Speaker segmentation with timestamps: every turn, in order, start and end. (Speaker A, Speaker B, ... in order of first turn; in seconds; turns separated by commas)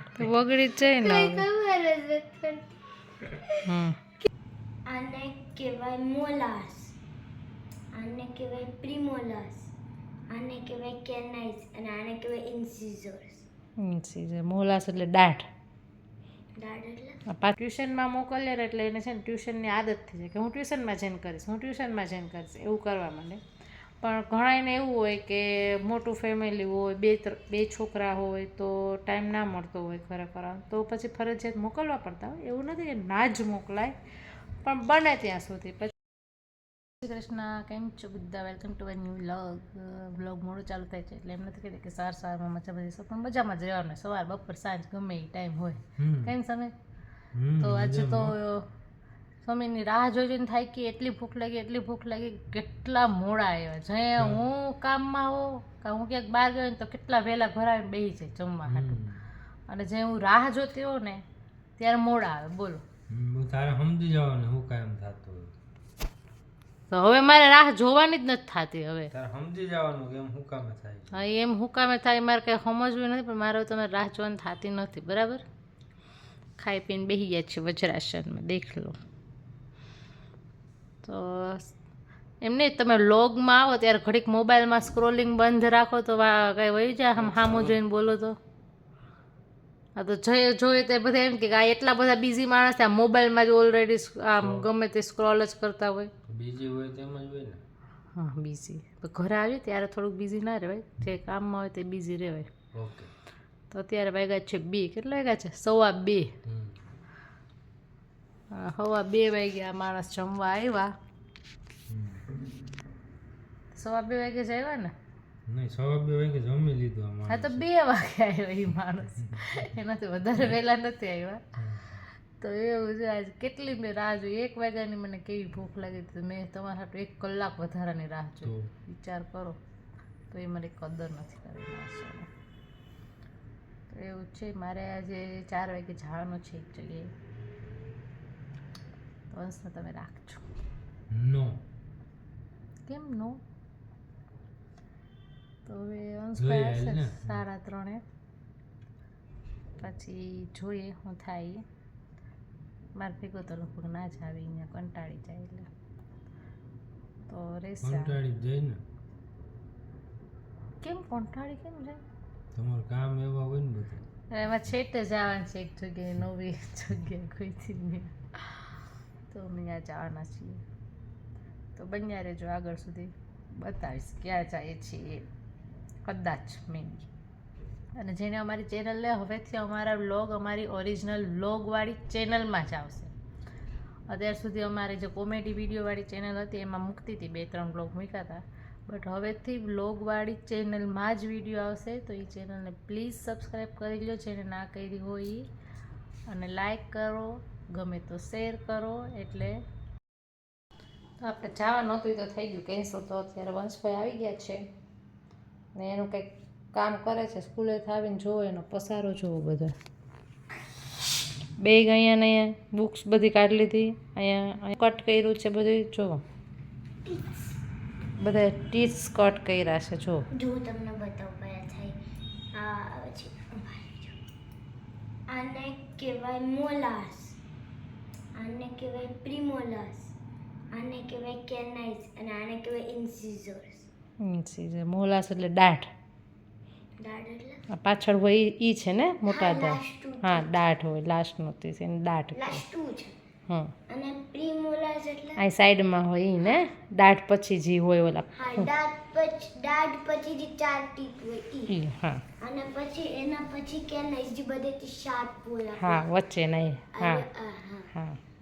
Speaker A: 0.1-1.5, Speaker B: 0.9-2.8, Speaker B: 3.3-3.6, Speaker A: 3.6-4.0, Speaker B: 4.9-7.0, Speaker B: 7.9-9.7, Speaker B: 10.3-13.5, Speaker A: 13.8-15.5, Speaker B: 16.6-17.2, Speaker A: 17.3-23.4, Speaker A: 24.0-34.0, Speaker A: 34.6-36.0, Speaker A: 37.0-46.7, Speaker C: 46.0-46.3, Speaker C: 47.3-48.4, Speaker A: 47.6-48.7, Speaker A: 49.4-59.0, Speaker C: 58.7-59.3, Speaker A: 59.7-61.2, Speaker A: 61.8-62.8, Speaker C: 63.1-65.5, Speaker A: 66.9-69.1, Speaker C: 69.1-71.2, Speaker A: 71.1-75.4, Speaker A: 76.6-79.0, Speaker A: 81.0-81.7, Speaker A: 82.4-88.4, Speaker C: 87.2-87.8, Speaker A: 90.0-96.1, Speaker C: 94.4-94.7, Speaker C: 96.3-97.6, Speaker A: 98.2-102.5, Speaker C: 102.7-103.1, Speaker A: 103.7-106.3, Speaker C: 106.5-106.8, Speaker A: 108.5-110.9, Speaker C: 111.9-112.2, Speaker A: 113.7-114.9, Speaker C: 115.5-117.7, Speaker A: 117.3-121.4, Speaker C: 119.2-119.6, Speaker C: 121.6-122.0, Speaker A: 122.4-129.6, Speaker C: 128.4-128.7, Speaker A: 130.3-132.3, Speaker A: 133.9-137.1, Speaker A: 139.3-140.5, Speaker C: 141.1-141.6, Speaker A: 142.9-143.4, Speaker A: 145.7-148.0, Speaker C: 146.4-147.4, Speaker A: 149.8-151.6, Speaker A: 153.0-155.7, Speaker A: 157.3-158.2, Speaker C: 157.8-158.8, Speaker A: 160.8-162.0, Speaker C: 162.6-164.0, Speaker A: 164.3-168.8, Speaker A: 169.3-170.6, Speaker A: 171.8-175.3, Speaker A: 176.1-177.1, Speaker A: 178.0-183.1, Speaker A: 184.1-195.5, Speaker A: 196.3-199.6, Speaker A: 201.2-204.6, Speaker A: 205.8-209.7, Speaker A: 211.6-216.2, Speaker B: 217.1-217.6, Speaker A: 218.2-220.3, Speaker B: 220.3-222.0, Speaker B: 222.5-224.2, Speaker B: 225.3-227.4, Speaker B: 228.4-230.1, Speaker B: 230.7-233.9, Speaker A: 234.2-235.9, Speaker B: 237.0-237.6, Speaker A: 237.7-242.6, Speaker B: 239.3-240.7, Speaker B: 242.3-243.1, Speaker A: 243.5-243.7, Speaker B: 243.9-245.4, Speaker A: 245.4-248.7, Speaker B: 248.3-251.8, Speaker A: 251.7-252.2, Speaker B: 252.4-256.1, Speaker A: 255.8-257.2, Speaker B: 256.9-257.9, Speaker A: 257.9-258.2